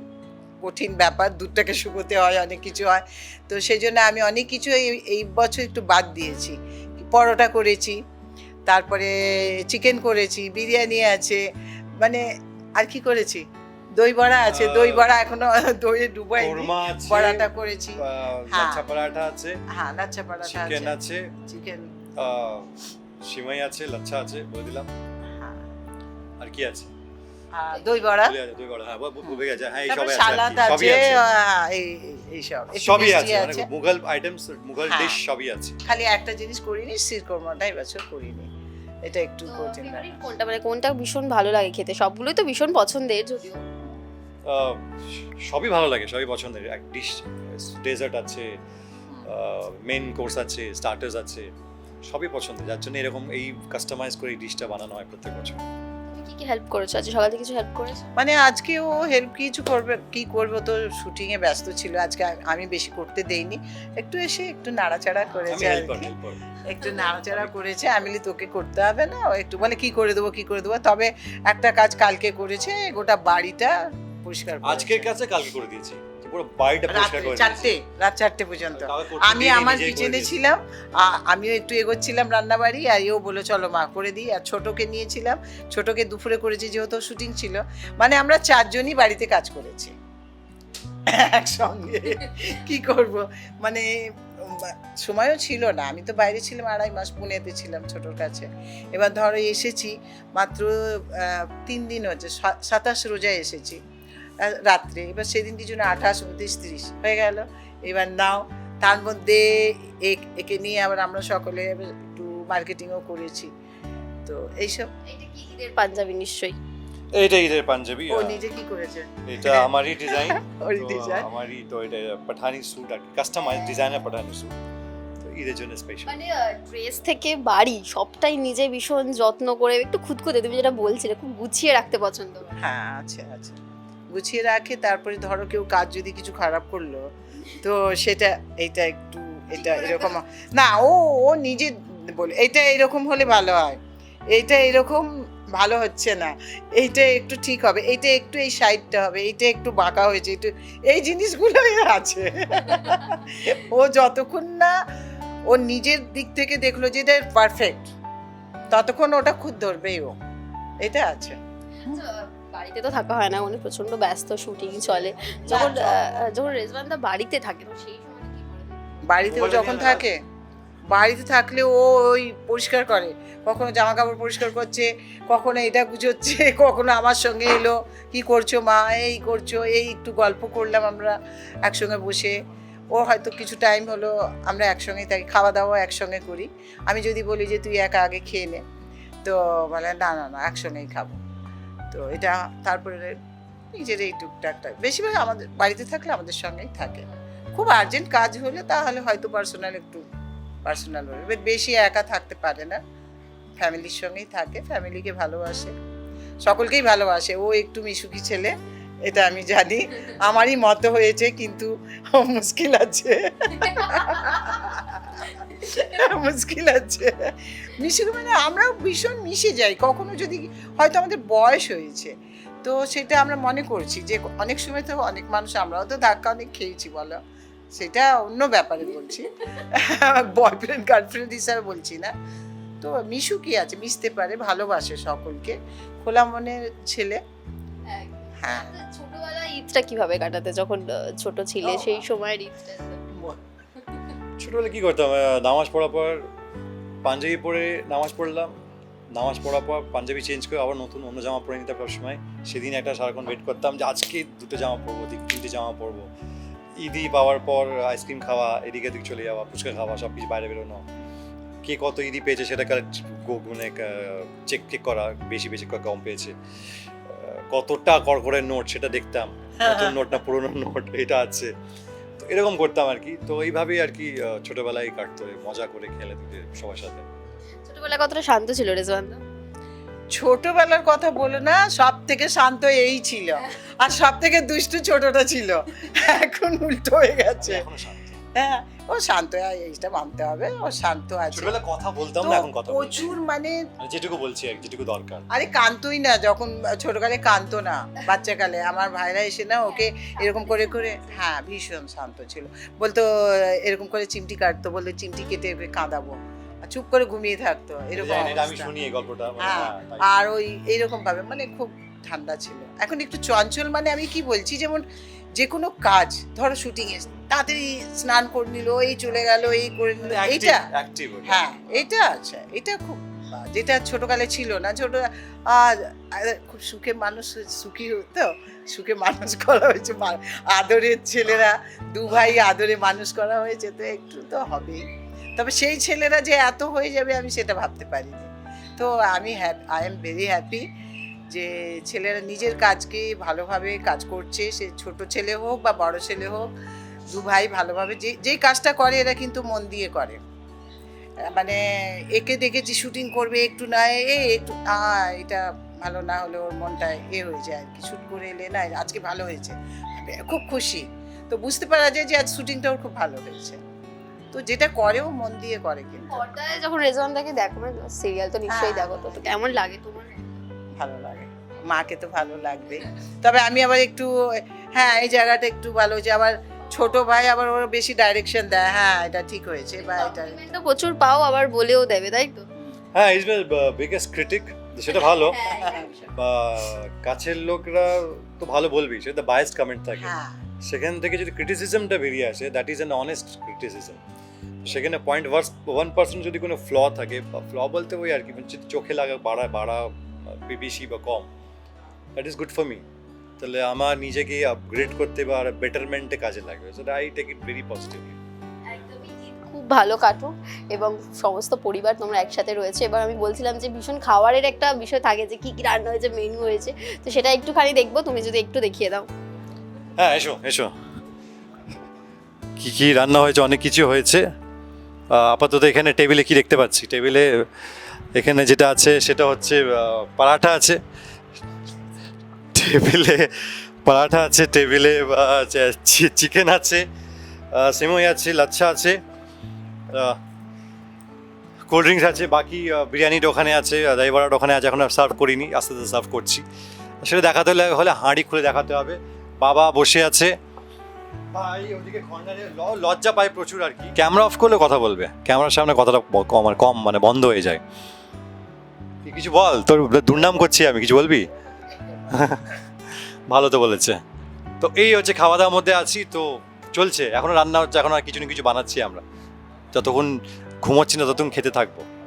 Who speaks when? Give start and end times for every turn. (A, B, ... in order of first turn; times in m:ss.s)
0:00.6-0:08.0 A
0:08.7-0:09.1 A
0:09.7-0:11.4 A
0:12.8-0:13.4 A
0:14.0-0:18.8 A
0:14.5-0:15.1 B
0:16.4-0:19.6 B
0:19.7-0:21.9 A
0:20.4-0:21.3 B
0:22.2-0:24.9 B
0:26.4-0:26.9 B
0:27.6-0:28.4 A
0:28.2-0:31.2 B
0:29.9-0:33.7 A
0:32.7-0:35.8 B
0:34.8-0:35.2 A
0:35.8-0:38.5 A
0:39.0-0:40.2 A
0:39.5-0:43.6 C
0:44.4-0:48.5 B
0:49.3-0:51.5 B
0:52.1-0:55.6 B
0:56.1-0:58.0 C
0:58.2-1:06.1 A
1:05.5-1:06.6 B
1:06.6-1:13.7 A
1:14.2-1:15.1 A
1:14.6-1:17.7 B
1:16.9-1:29.9 A
1:18.7-1:20.3 B
1:31.1-1:33.9 A
1:34.4-1:43.8 A
1:44.4-1:53.5 A
1:54.3-1:54.9 A
1:55.0-1:56.6 C
1:57.1-1:58.4 B
1:58.1-2:01.3 A
1:59.2-2:04.5 B
2:05.2-2:06.1 B
2:06.0-2:12.6 C
2:12.6-2:13.6 A
2:14.1-2:17.0 A
2:17.6-2:23.8 A
2:19.6-2:20.1 C
2:24.3-2:34.7 A
2:35.5-2:37.9 A
2:38.7-2:40.2 A
2:40.8-2:41.4 A
2:41.8-2:48.8 C
2:45.4-2:46.3 A
2:49.1-2:50.2 A
2:49.2-2:50.1 B
2:50.9-3:02.4 A
3:02.9-3:08.6 A
3:09.2-3:11.2 A
3:11.9-3:13.2 A
3:13.7-3:20.0 A
3:20.6-3:22.8 A
3:23.6-3:25.7 A
3:26.4-3:28.5 A
3:29.0-3:47.2 A
3:47.7-3:52.1 A
3:52.8-3:57.2 A
3:57.9-4:03.0 C
3:58.4-3:58.7 A
4:01.6-4:02.1 A
4:04.4-4:06.2 B
4:07.0-4:08.5 B
4:09.1-4:16.1 B
4:16.8-4:20.8 B
4:21.6-4:26.3 B
4:27.1-4:31.5 B
4:29.6-4:30.0 A
4:32.2-4:37.0 B
4:37.6-4:39.2 C
4:40.1-4:47.6 A
4:47.4-4:48.2 B
4:48.3-4:51.6 A
4:51.3-4:53.1 B
4:52.2-4:53.6 A
4:53.8-4:55.2 B
4:55.3-5:06.1 A
5:06.7-5:08.7 A
5:07.9-5:10.1 B
5:09.4-5:14.8 A
5:15.4-5:20.6 A
5:20.0-5:21.4 B
5:21.2-5:34.8 A
5:35.4-5:40.6 A
5:41.3-5:46.5 A
5:47.1-5:50.2 A
5:51.3-5:51.6 A
5:52.1-6:03.6 A
6:04.3-6:06.2 A
6:06.1-6:10.3 C
6:08.5-6:09.2 A
6:10.8-6:14.1 A
6:14.7-6:20.6 A
6:19.8-6:22.4 C
6:22.9-6:25.4 B
6:24.9-6:26.1 C
6:25.5-6:25.8 A
6:26.1-6:34.0 B
6:30.0-6:30.4 A
6:34.6-6:41.3 B
6:42.2-6:42.8 B
6:43.4-6:48.2 B
6:48.7-6:59.1 C
7:00.0-7:00.7 B
7:02.6-7:04.2 B
7:05.1-7:07.3 B
7:08.1-7:10.8 B
7:12.5-7:16.8 B
7:17.5-7:19.0 B
7:19.9-7:20.2 B
7:21.7-7:26.4 B
7:27.0-7:30.3 B
7:31.3-7:37.6 B
7:39.0-7:41.3 B
7:42.1-7:42.6 B
7:43.3-7:44.0 B
7:44.6-7:49.0 B
7:49.7-7:51.8 B